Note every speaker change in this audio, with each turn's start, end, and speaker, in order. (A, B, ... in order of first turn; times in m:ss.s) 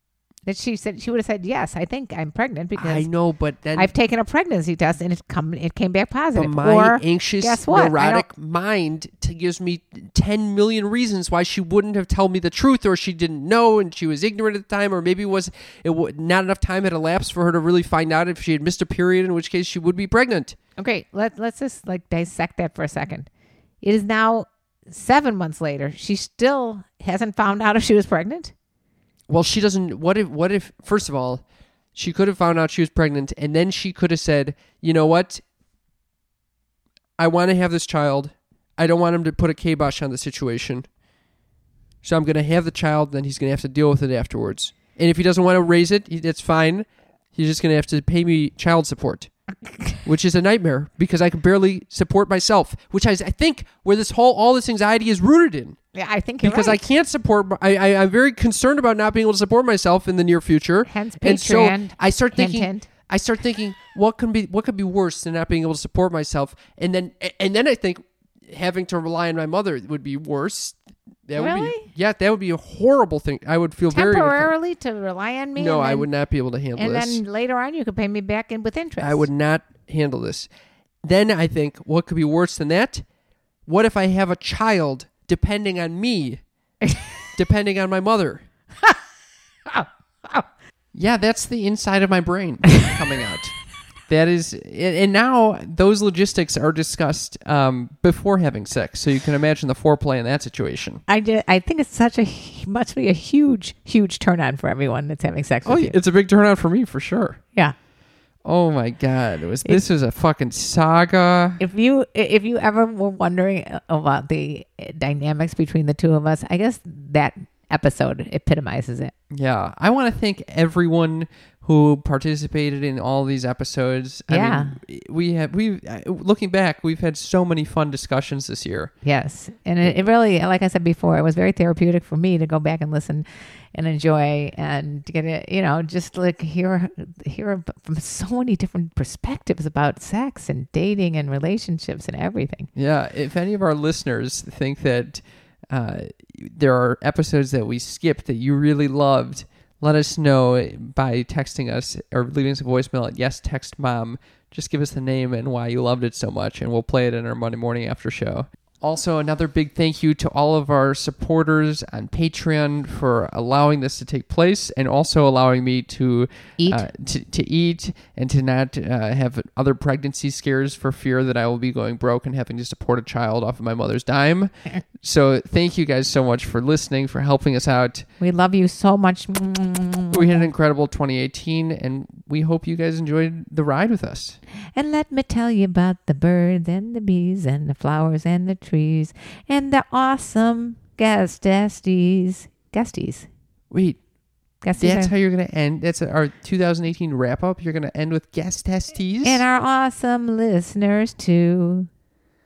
0:00.4-0:03.1 A
0:02.8-0:03.9 B
0:03.7-0:08.3 A
0:06.4-0:20.6 B
0:20.8-0:23.3 A
0:23.8-0:28.5 A
0:29.3-0:35.4 B
0:37.2-0:40.9 B
0:42.0-0:49.3 B
0:50.0-0:55.8 B
0:55.9-0:56.8 A
0:56.4-1:14.5 B
1:00.9-1:02.9 A
1:11.4-1:11.9 A
1:13.9-1:16.1 A
1:15.6-1:17.2 B
1:16.8-1:19.3 A
1:19.0-1:20.5 B
1:21.0-1:23.0 B
1:23.7-1:26.4 B
1:27.4-1:28.5 B
1:29.7-1:30.4 A
1:30.9-1:33.6 B
1:34.1-1:41.0 B
1:41.1-1:46.0 A
1:45.6-1:47.4 B
1:48.4-1:51.6 B
1:51.6-1:59.1 A
1:59.3-2:08.9 B
2:04.3-2:04.8 A
2:09.0-2:22.7 A
2:22.8-2:58.1 B
2:46.6-2:46.9 A
2:58.2-3:00.5 A
3:00.1-3:04.4 B
3:04.7-3:13.3 A
3:13.7-3:14.0 B
3:14.6-3:15.1 A
3:14.8-3:19.4 B
3:19.2-3:21.9 A